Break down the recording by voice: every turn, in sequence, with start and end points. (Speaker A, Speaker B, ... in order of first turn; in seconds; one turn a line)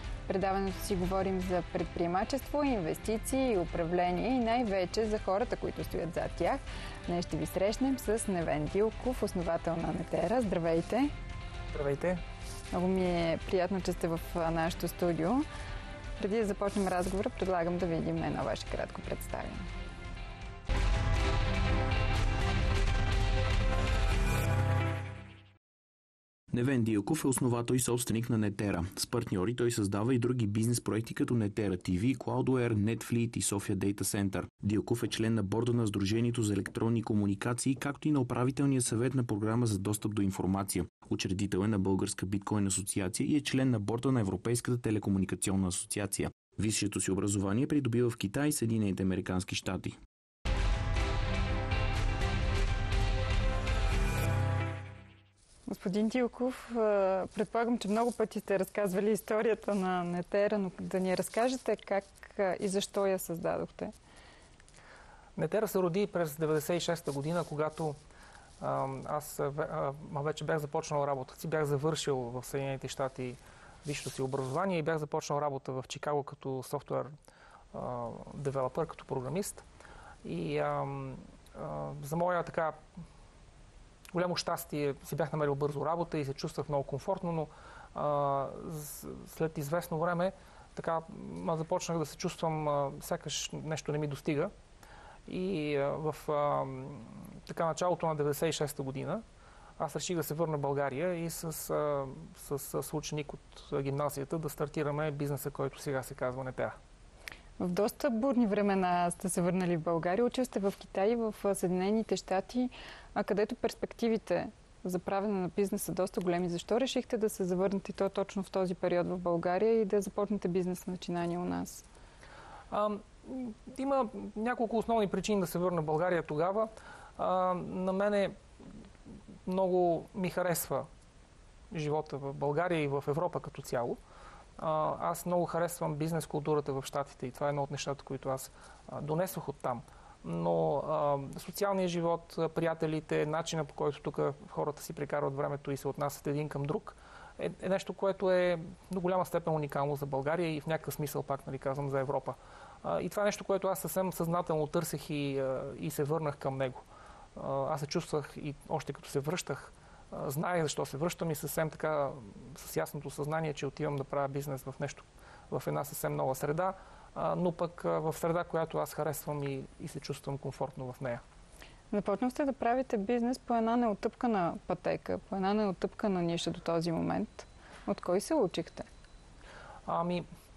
Speaker A: 0.3-11.1
Speaker B: 11.7-12.2
Speaker A: 12.7-15.5
Speaker A: 16.2-19.7
Speaker C: 26.5-50.0
Speaker A: 55.7-63.9
Speaker B: 65.4-68.0
Speaker B: 68.6-77.1
Speaker B: 77.7-79.6
Speaker B: 80.2-82.8
Speaker B: 84.1-94.5
Speaker B: 95.3-99.2
Speaker B: 99.8-106.8
Speaker A: 107.6-121.8
Speaker B: 122.7-128.4
Speaker B: 129.5-130.9
Speaker B: 131.7-134.0
Speaker B: 134.6-171.2
Speaker A: 171.9-178.9
Speaker B: 179.9-180.3